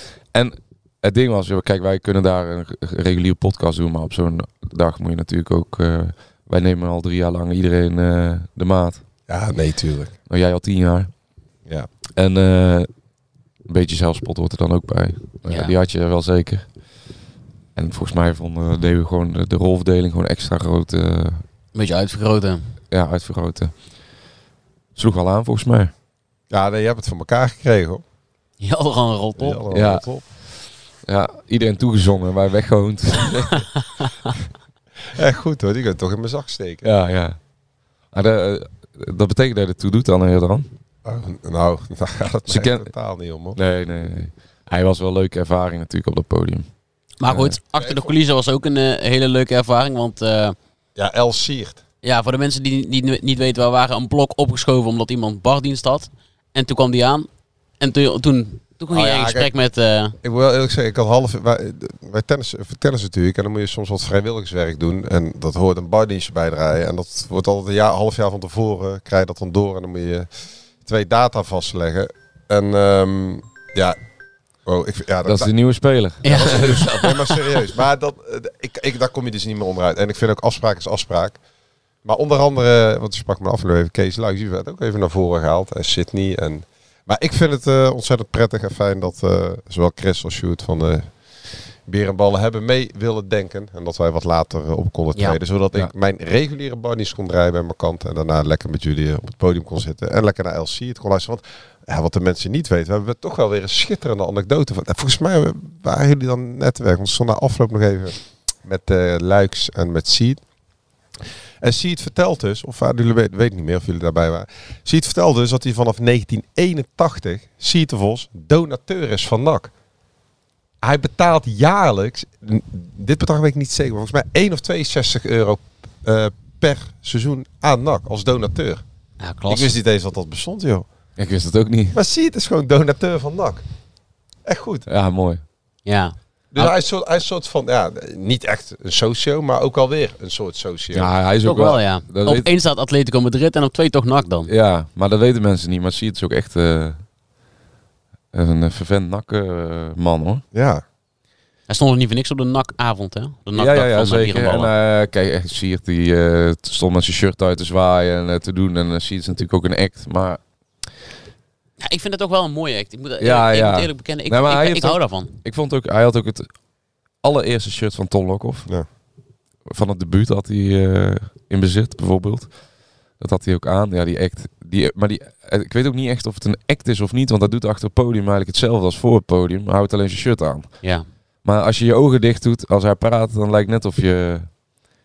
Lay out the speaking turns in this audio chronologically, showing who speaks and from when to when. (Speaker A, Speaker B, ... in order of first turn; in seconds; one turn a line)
Speaker A: 0.3-9.0
Speaker B: 9.3-10.2
Speaker A: 10.3-11.1
Speaker A: 12.2-12.9
Speaker A: 13.7-16.7
Speaker A: 17.8-21.4
Speaker C: 21.7-22.7
Speaker A: 22.9-23.7
Speaker A: 25.0-25.9
Speaker B: 26.5-28.0
Speaker C: 28.6-29.6
Speaker B: 29.4-30.2
Speaker A: 29.7-30.2
Speaker A: 31.1-33.7
Speaker B: 35.1-36.9
Speaker A: 36.8-37.4
Speaker A: 38.1-40.7
Speaker B: 41.0-43.6
Speaker A: 42.5-42.9
Speaker A: 43.6-46.7
Speaker C: 47.2-50.6
Speaker A: 47.3-47.5
Speaker B: 47.8-48.1
Speaker B: 51.0-51.8
Speaker C: 52.0-57.3
Speaker C: 57.8-60.2
Speaker B: 58.9-59.5
Speaker B: 60.2-70.3
Speaker B: 70.8-74.0
Speaker B: 74.7-75.5
Speaker A: 75.2-77.1
Speaker C: 76.2-77.2
Speaker B: 76.2-81.4
Speaker B: 82.0-91.1
Speaker B: 91.8-110.4
Speaker B: 111.6-119.7
Speaker B: 120.8-128.8
Speaker C: 129.2-129.8
Speaker B: 129.5-130.9
Speaker A: 131.2-132.0
Speaker B: 131.9-133.7
Speaker B: 134.4-134.9
Speaker A: 134.9-135.4
Speaker C: 135.9-136.7
Speaker B: 136.5-141.1
Speaker A: 140.9-142.5
Speaker C: 141.4-144.5
Speaker A: 144.5-147.1
Speaker A: 148.3-150.4
Speaker B: 150.5-150.8
Speaker C: 151.7-154.7
Speaker A: 153.6-160.4
Speaker C: 161.8-165.4
Speaker A: 163.2-166.5
Speaker A: 167.2-168.7
Speaker A: 169.7-172.5
Speaker A: 173.2-180.8
Speaker A: 181.4-184.5